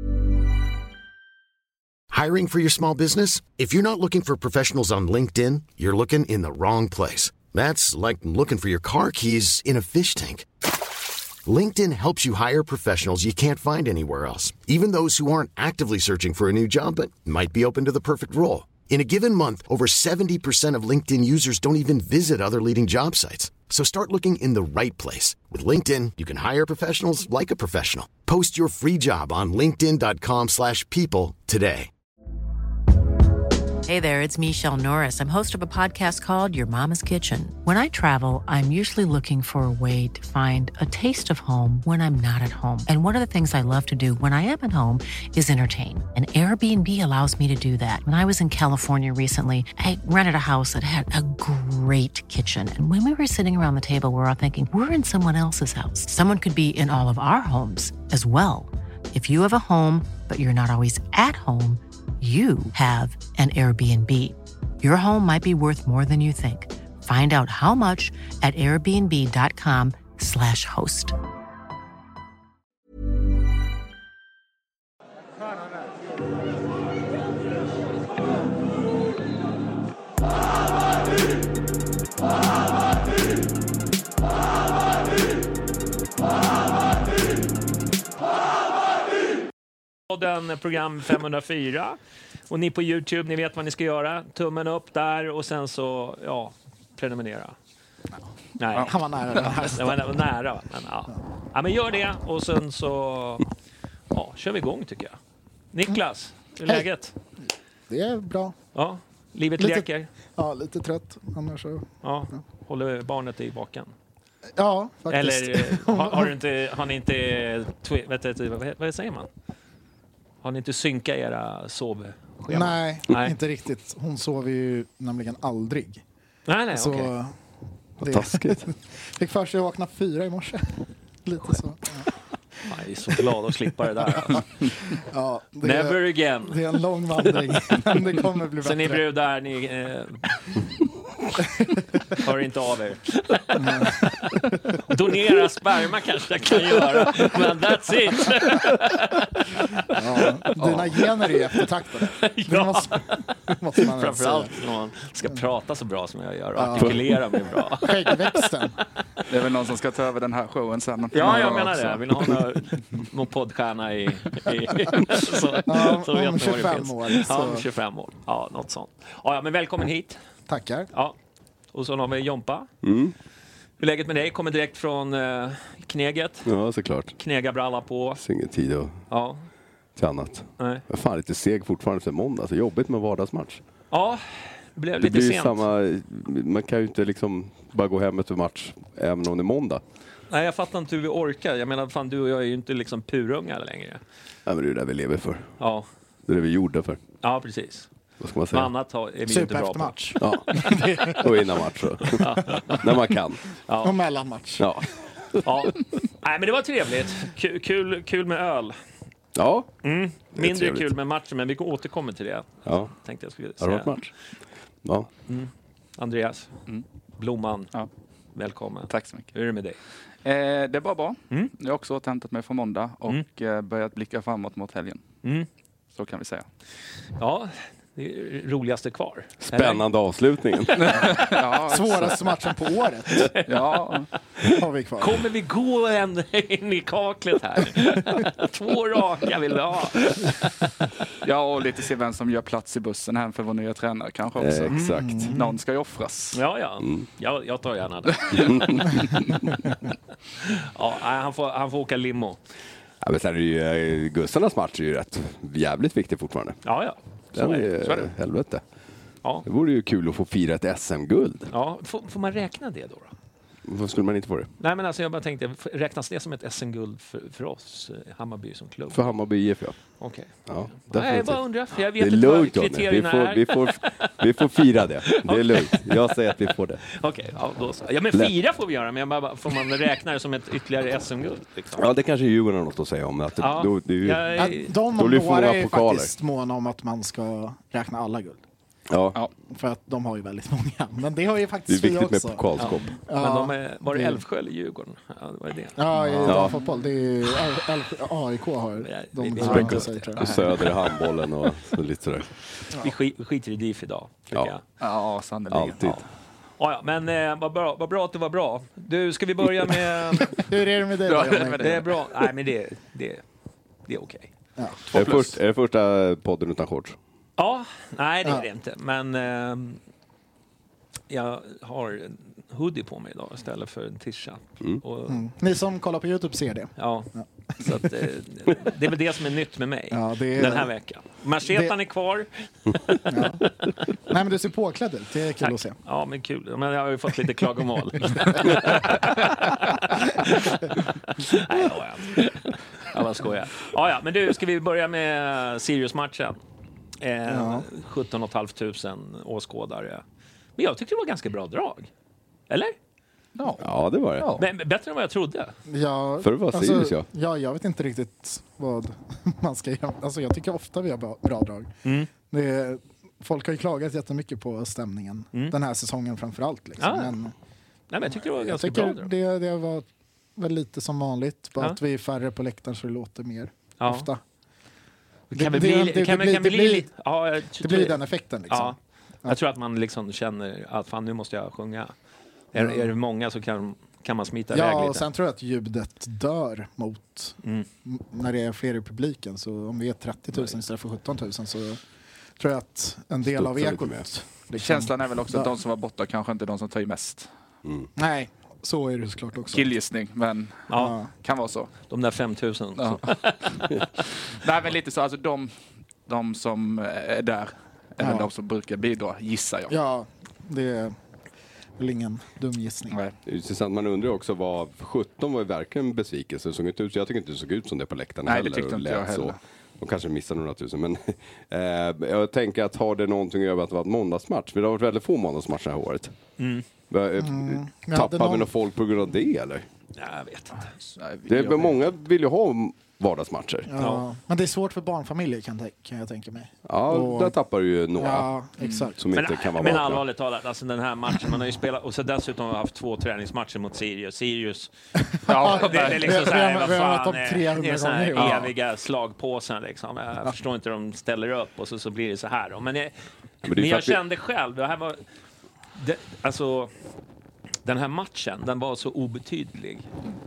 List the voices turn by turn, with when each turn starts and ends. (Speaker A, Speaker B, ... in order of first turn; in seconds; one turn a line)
Speaker A: 2.1-10.5
Speaker A: 11.5-31.9
Speaker B: 33.9-71.2
Speaker C: 90.1-92.0
Speaker C: 92.5-97.5
Speaker C: 98.6-103.5
Speaker D: 98.8-100.2
Speaker E: 98.8-99.6
Speaker C: 104.1-105.2
Speaker C: 105.7-107.1
Speaker D: 107.9-108.5
Speaker C: 108.8-110.1
Speaker D: 109.6-112.4
Speaker C: 112.0-113.9
Speaker D: 114.6-116.3
Speaker C: 115.1-119.3
Speaker C: 120.4-123.3
Speaker D: 122.5-126.0
Speaker C: 126.5-127.1
Speaker D: 126.7-127.3
Speaker D: 128.0-132.1
Speaker F: 128.0-128.7
Speaker C: 132.7-134.5
Speaker D: 134.1-139.0
Speaker C: 135.6-136.6
Speaker C: 138.6-140.2
Speaker C: 142.1-158.5
Speaker D: 143.6-144.8
Speaker D: 149.9-154.5
Speaker D: 156.6-157.1
Speaker D: 157.8-158.8
Speaker E: 159.3-161.7
Speaker C: 161.1-170.2
Speaker D: 161.2-162.0
Speaker D: 165.7-167.7
Speaker D: 170.5-170.9
Speaker C: 171.7-172.7
Speaker F: 172.8-173.1
Speaker C: 173.8-176.5
Speaker F: 176.5-177.2
Speaker C: 177.2-178.2
Speaker F: 178.2-179.0
Speaker C: 179.1-179.4
Speaker F: 180.0-183.6
Speaker C: 180.6-180.8
Speaker C: 183.9-184.2
Speaker C: 184.8-185.6
Speaker F: 185.0-189.8
Speaker C: 190.3-194.0
Speaker F: 194.5-195.5
Speaker C: 195.6-195.9
Speaker F: 196.3-197.0
Speaker C: 197.2-197.9
Speaker F: 198.2-198.7
Speaker C: 198.5-200.7
Speaker D: 199.3-201.5
Speaker F: 200.2-203.5
Speaker C: 202.2-202.8
Speaker C: 203.7-204.0
Speaker D: 203.8-204.7
Speaker F: 204.6-205.4
Speaker C: 205.4-208.8
Speaker F: 209.4-209.7
Speaker C: 209.8-214.0
Speaker F: 210.3-210.9
Speaker F: 212.7-212.9
Speaker F: 213.6-214.1
Speaker C: 215.3-216.5
Speaker C: 217.2-217.7
Speaker C: 218.4-219.8
Speaker E: 218.9-219.3
Speaker E: 220.2-225.1
Speaker E: 225.9-226.5
Speaker C: 227.2-229.8
Speaker F: 229.4-231.1
Speaker E: 230.8-232.2
Speaker D: 231.7-233.3
Speaker C: 233.2-233.7
Speaker E: 233.5-234.1
Speaker D: 234.4-235.2
Speaker C: 235.0-240.8
Speaker E: 241.2-244.8
Speaker F: 244.4-245.3
Speaker C: 244.7-245.0
Speaker D: 245.0-245.6
Speaker E: 245.3-246.4
Speaker C: 246.3-248.9
Speaker F: 246.8-247.1
Speaker F: 248.3-249.5
Speaker C: 250.4-252.4
Speaker F: 253.0-256.6
Speaker C: 256.6-257.7
Speaker F: 257.3-258.6
Speaker E: 257.8-258.1
Speaker F: 259.4-261.5
Speaker C: 261.5-263.1
Speaker F: 263.7-264.5
Speaker C: 264.6-269.2
Speaker F: 268.9-269.8
Speaker C: 270.0-274.1
Speaker F: 270.4-276.8
Speaker C: 275.1-276.1
Speaker C: 276.9-281.8
Speaker F: 281.8-286.1
Speaker C: 283.4-284.7
Speaker D: 284.4-288.4
Speaker F: 288.9-289.2
Speaker D: 289.5-294.2
Speaker F: 291.7-293.0
Speaker C: 292.6-295.8
Speaker D: 295.8-300.2
Speaker E: 296.0-296.5
Speaker F: 296.2-296.5
Speaker C: 298.8-300.6
Speaker E: 299.4-300.7
Speaker F: 299.4-302.3
Speaker C: 302.8-304.6
Speaker E: 304.8-305.9
Speaker F: 305.5-306.0
Speaker C: 306.6-310.4
Speaker D: 310.3-311.8
Speaker E: 311.1-311.9
Speaker C: 311.6-313.2
Speaker C: 313.9-314.3
Speaker D: 314.6-314.9
Speaker E: 314.9-315.4
Speaker F: 314.9-317.0
Speaker C: 317.4-319.8
Speaker C: 321.1-325.2
Speaker D: 325.1-327.7
Speaker C: 326.8-333.0
Speaker D: 329.9-330.7
Speaker D: 331.5-331.8
Speaker D: 333.1-333.5
Speaker D: 334.0-335.8
Speaker C: 335.4-346.4
Speaker C: 347.0-350.0
Speaker D: 347.3-347.7
Speaker C: 350.6-351.9
Speaker C: 352.5-352.8
Speaker E: 353.4-354.4
Speaker F: 353.6-354.3
Speaker C: 354.4-355.5
Speaker D: 355.7-361.7
Speaker F: 356.2-357.1
Speaker C: 361.8-362.1
Speaker D: 362.3-367.3
Speaker C: 366.8-367.2
Speaker C: 367.9-369.1
Speaker D: 368.1-374.2
Speaker C: 373.8-374.1
Speaker C: 375.3-381.9
Speaker D: 375.3-376.9
Speaker D: 377.6-379.4
Speaker C: 382.5-385.1
Speaker D: 382.5-382.9
Speaker D: 384.5-391.8
Speaker D: 392.4-395.5
Speaker F: 393.3-394.1
Speaker E: 394.6-397.3
Speaker D: 398.0-399.7
Speaker E: 399.5-400.7
Speaker C: 400.7-400.9
Speaker D: 400.7-401.1
Speaker E: 401.2-401.7
Speaker C: 401.9-403.7
Speaker E: 402.8-403.5
Speaker E: 404.4-405.5
Speaker E: 406.1-409.8
Speaker D: 408.0-408.3
Speaker D: 409.7-411.0
Speaker D: 411.8-413.0
Speaker F: 413.3-426.1
Speaker E: 418.3-419.4
Speaker C: 426.4-426.6
Speaker F: 426.9-429.6
Speaker D: 427.2-428.5
Speaker C: 430.0-430.7
Speaker E: 430.8-431.8
Speaker F: 431.3-433.7
Speaker D: 433.7-437.4
Speaker C: 433.8-434.0
Speaker F: 436.7-438.3
Speaker D: 438.0-439.0
Speaker E: 438.6-438.9
Speaker F: 439.0-440.1
Speaker C: 439.1-444.7
Speaker D: 445.1-448.5
Speaker E: 445.3-446.4
Speaker C: 445.3-452.9
Speaker F: 453.4-454.0
Speaker C: 453.5-455.0
Speaker C: 455.8-456.7
Speaker C: 457.6-459.9